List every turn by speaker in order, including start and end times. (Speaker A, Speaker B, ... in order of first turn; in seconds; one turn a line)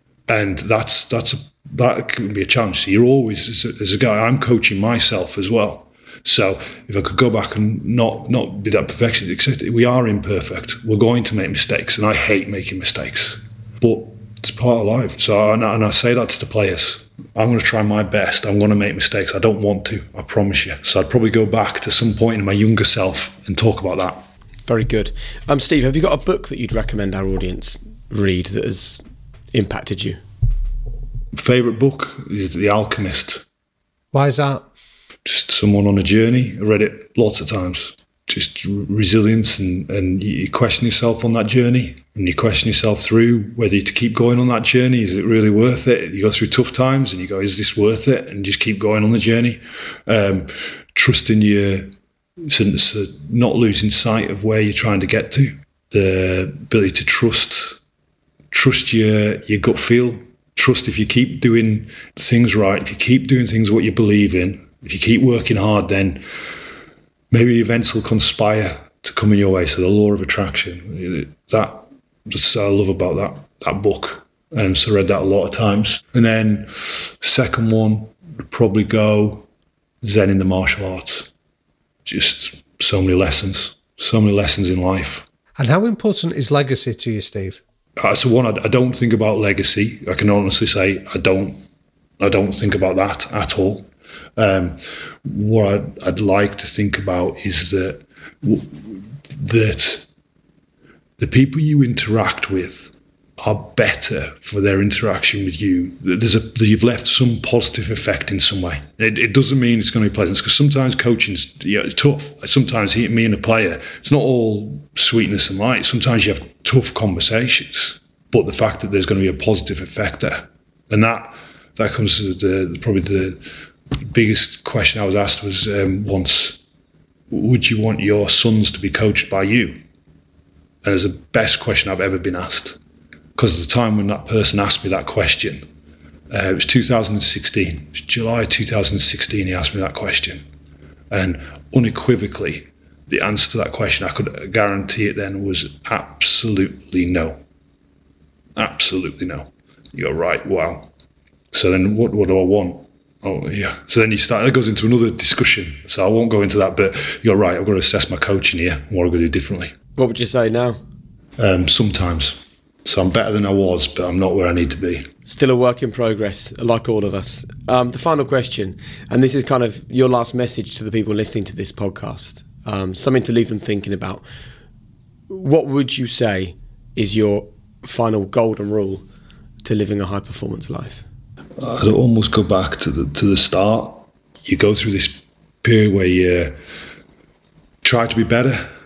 Speaker A: 0.3-24.3
Speaker B: 24.7-30.2
Speaker A: 31.3-33.4
Speaker C: 34.1-34.6
Speaker A: 35.2-51.9
Speaker A: 52.5-57.8
Speaker A: 58.5-66.2
Speaker A: 67.3-79.5
Speaker A: 80.0-81.3
Speaker A: 82.0-85.2
Speaker C: 85.6-87.6
Speaker A: 88.0-91.6
Speaker A: 92.2-100.0
Speaker A: 101.2-123.5
Speaker A: 124.0-126.6
Speaker A: 127.3-129.8
Speaker A: 130.8-132.8
Speaker A: 133.3-135.6
Speaker A: 136.3-140.4
Speaker A: 141.1-147.4
Speaker A: 148.6-150.9
Speaker A: 151.5-159.7
Speaker B: 159.9-160.8
Speaker A: 161.4-165.1
Speaker B: 165.3-174.2
Speaker B: 175.3-179.0
Speaker B: 179.6-181.0
Speaker A: 181.6-186.6
Speaker A: 187.8-188.7